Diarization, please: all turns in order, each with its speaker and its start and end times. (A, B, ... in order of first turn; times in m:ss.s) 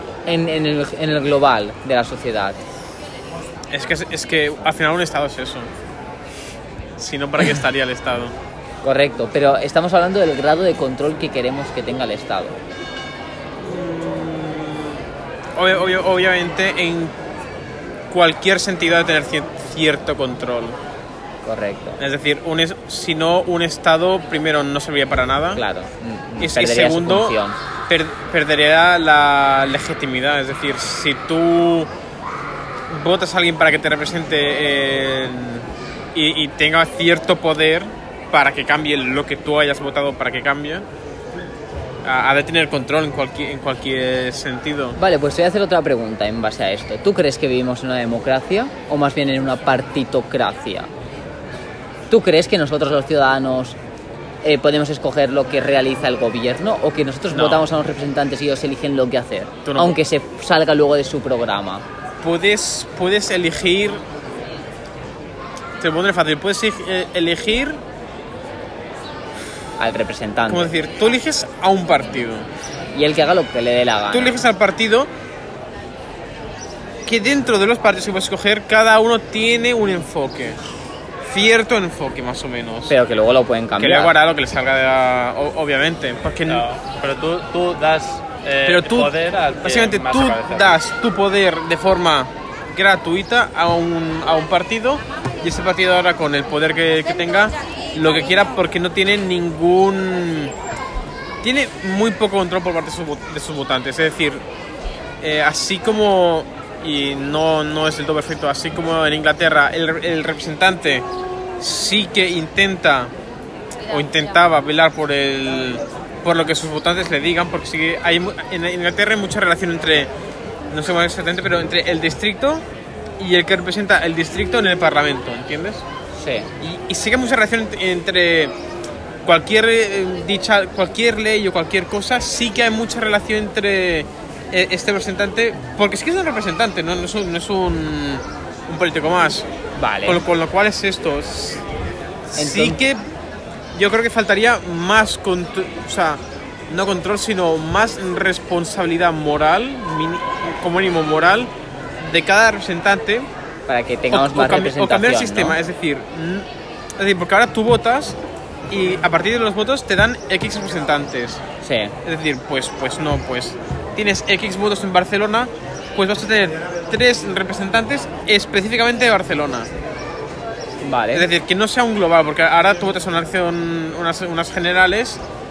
0:00.2-0:02.6 A
0:03.7-0:05.7 B
0:07.0-0:08.3 B
0:08.8-0:12.6 A
0:13.6-0:15.0 B
0:15.6-0:17.1 B
0:18.1-0:20.8 B
0:21.4-0:22.0 A
0:22.0-0:25.6 B
0:25.5-0:27.6 A
0:26.4-0:27.4 B
0:27.9-0:31.9 B
0:32.9-0:40.8 B
0:42.0-0:45.0 B
0:45.0-0:50.9 A
0:52.1-0:53.8 A
0:54.4-1:01.8 A
0:57.3-0:57.6 B
0:59.6-1:00.0 B
1:02.2-1:04.0 B
1:05.8-1:07.8 B
1:09.8-1:10.7 A
1:10.5-1:12.5 B
1:12.9-1:14.4 A
1:14.1-1:15.1 B
1:17.0-1:20.6 B
1:21.2-1:23.0 B
1:22.9-1:24.2 A
1:23.8-1:26.6 B
1:26.5-1:30.8 C
1:28.6-1:40.5 B
1:41.4-1:44.4 B
1:45.2-1:51.0 B
1:51.6-1:53.1 B
1:53.9-2:00.1 B
2:00.7-2:02.6 B
2:03.2-2:05.8 B
2:06.1-2:06.5 A
2:06.6-2:08.5 B
2:09.2-2:19.5 B
2:19.8-2:20.2 A
2:20.0-2:21.6 B
2:22.3-2:23.0 B
2:22.3-2:22.8 A
2:23.7-2:33.3 B
2:33.7-2:35.6 A
2:34.1-2:36.4 B
2:37.0-2:38.2 B
2:38.7-2:41.4 B
2:41.6-2:41.9 A
2:42.0-2:49.7 B
2:50.8-2:51.3 A
2:51.1-2:55.2 B